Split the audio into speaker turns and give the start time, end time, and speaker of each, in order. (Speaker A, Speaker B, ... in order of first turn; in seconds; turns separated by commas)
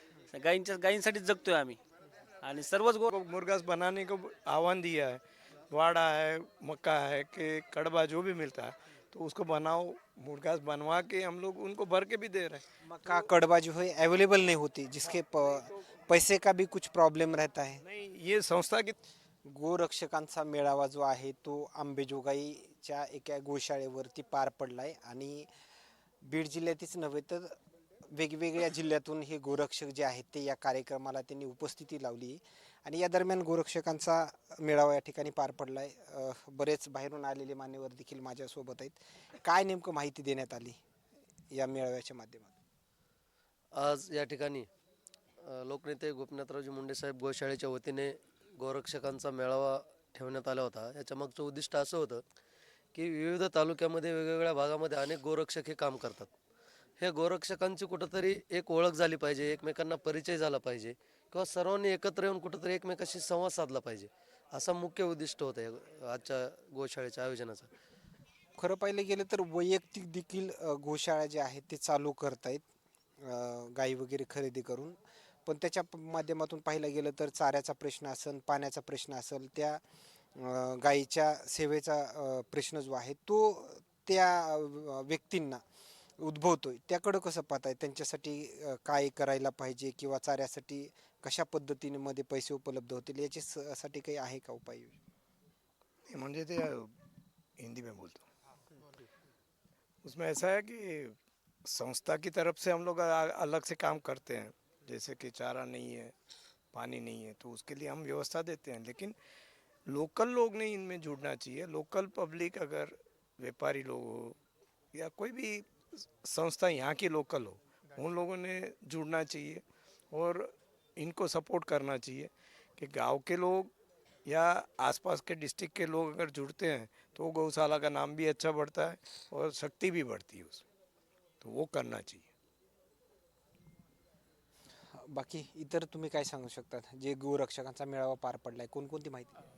Speaker A: 0.3-1.8, Speaker A: 2.4-3.1, Speaker B: 3.1-12.6, Speaker C: 12.8-17.8, Speaker B: 17.8-19.0, Speaker C: 19.5-25.5, Speaker C: 26.2-27.5, Speaker C: 28.1-40.8, Speaker C: 41.5-42.5, Speaker D: 43.7-44.7, Speaker D: 45.4-52.2, Speaker D: 52.9-56.3, Speaker D: 57.0-67.7, Speaker C: 68.6-72.6, Speaker C: 73.2-79.8, Speaker C: 80.4-85.6, Speaker C: 86.2-94.9, Speaker B: 96.0-96.9, Speaker B: 97.6-98.2, Speaker B: 100.0-106.1, Speaker B: 106.7-109.2, Speaker B: 109.9-114.3, Speaker B: 114.9-123.7, Speaker B: 124.2-130.6, Speaker B: 131.4-132.3, Speaker C: 135.1-139.3